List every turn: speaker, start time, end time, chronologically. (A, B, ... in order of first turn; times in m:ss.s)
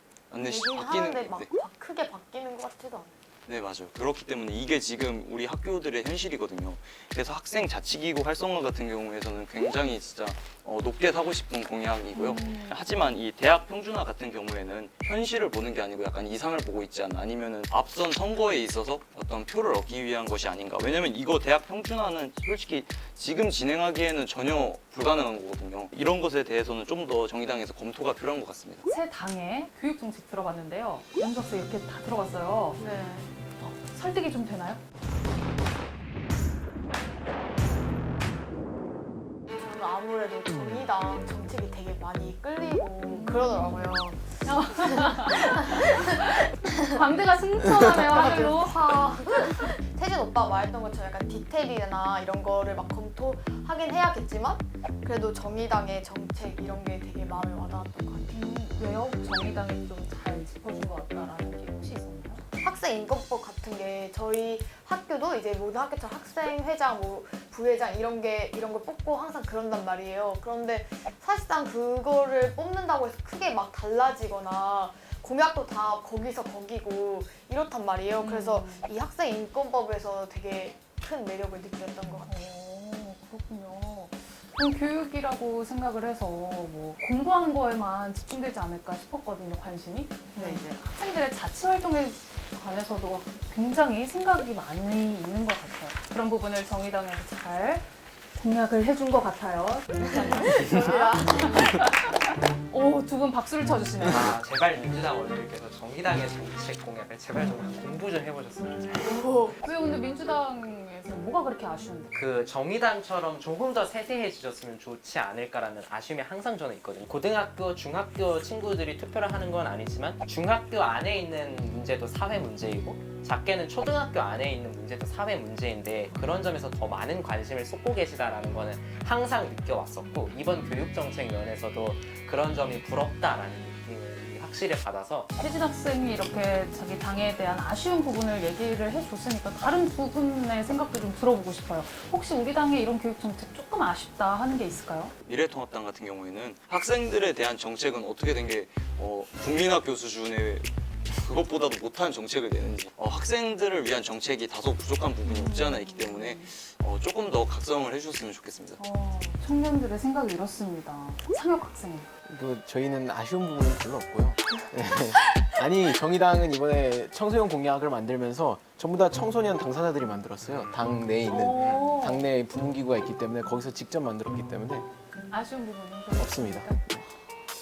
0:00.3-0:01.5 A
0:00.4-0:03.1 B
0:03.5-0:28.9 A
0:12.1-0:12.7 C
0:28.9-0:32.8 C
0:32.8-0:33.3 B
0:33.6-0:34.8 C
0:39.6-0:46.9 B
0:43.1-0:43.9 C
0:44.4-0:49.6 C
0:47.7-0:58.4 B
0:58.3-1:02.4 C
1:02.6-1:22.4 B
1:18.2-1:18.9 C
1:22.2-1:44.3 C
1:30.4-1:30.6 B
1:40.0-1:41.8 B
1:44.1-1:49.1 D
1:49.0-1:49.6 B
1:49.6-1:52.1 C
1:52.1-2:15.3 D
2:15.4-2:25.1 C
2:25.2-2:38.8 A
2:35.2-2:36.5 C
2:38.8-2:42.1 C
2:42.3-2:54.9 E
2:51.3-2:52.2 C
2:55.3-2:57.0 C
2:56.2-2:57.0 E